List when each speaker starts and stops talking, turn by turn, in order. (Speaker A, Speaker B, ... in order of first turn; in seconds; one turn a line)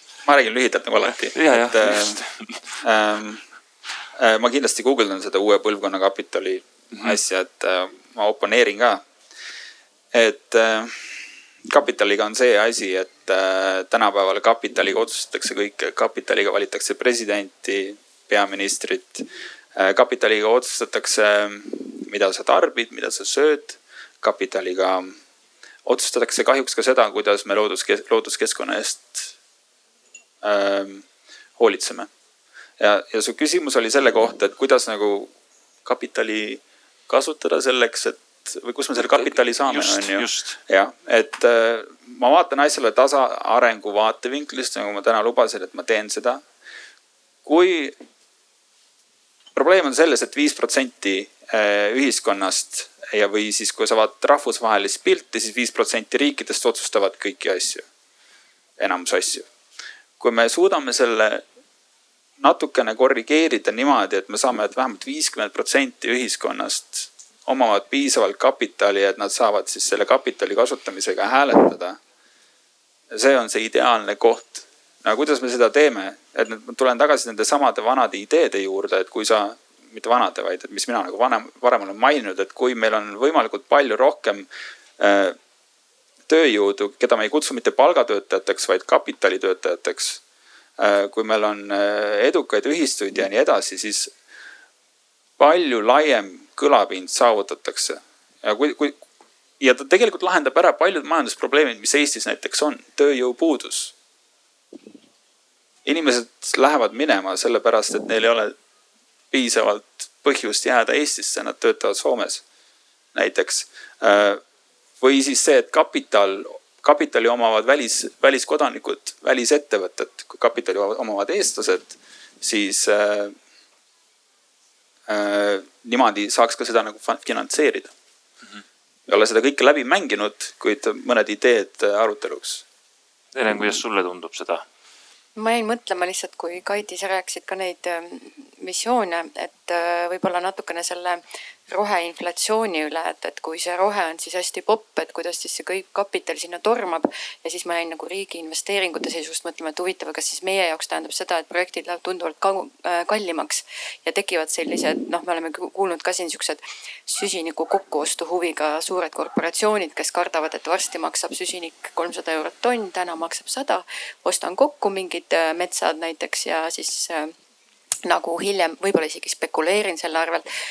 Speaker A: 0.2-2.2
Speaker B: 1.3-2.8
Speaker A: 2.8-3.4
Speaker A: 4.2-9.1
Speaker A: 10.1-25.2
Speaker A: 25.8-29.3
Speaker A: 30.4-31.1
Speaker A: 31.6-32.1
Speaker A: 32.8-35.3
Speaker A: 35.8-46.4
Speaker B: 39.0-40.6
Speaker A: 47.4-48.0
Speaker A: 49.5-57.9
Speaker A: 58.8-59.5
Speaker A: 60.2-61.4
Speaker A: 62.4-72.0
Speaker A: 73.1-84.5
Speaker A: 85.0-85.4
Speaker A: 86.3-90.2
Speaker A: 90.8-94.1
Speaker A: 95.4-99.0
Speaker A: 99.6-103.9
Speaker A: 105.8-108.5
Speaker A: 109.3-112.4
Speaker A: 113.1-114.4
Speaker A: 115.0-123.3
Speaker A: 125.1-127.9
Speaker A: 129.1-132.6
Speaker B: 133.3-134.6
Speaker C: 135.4-167.3
Speaker C: 168.1-170.4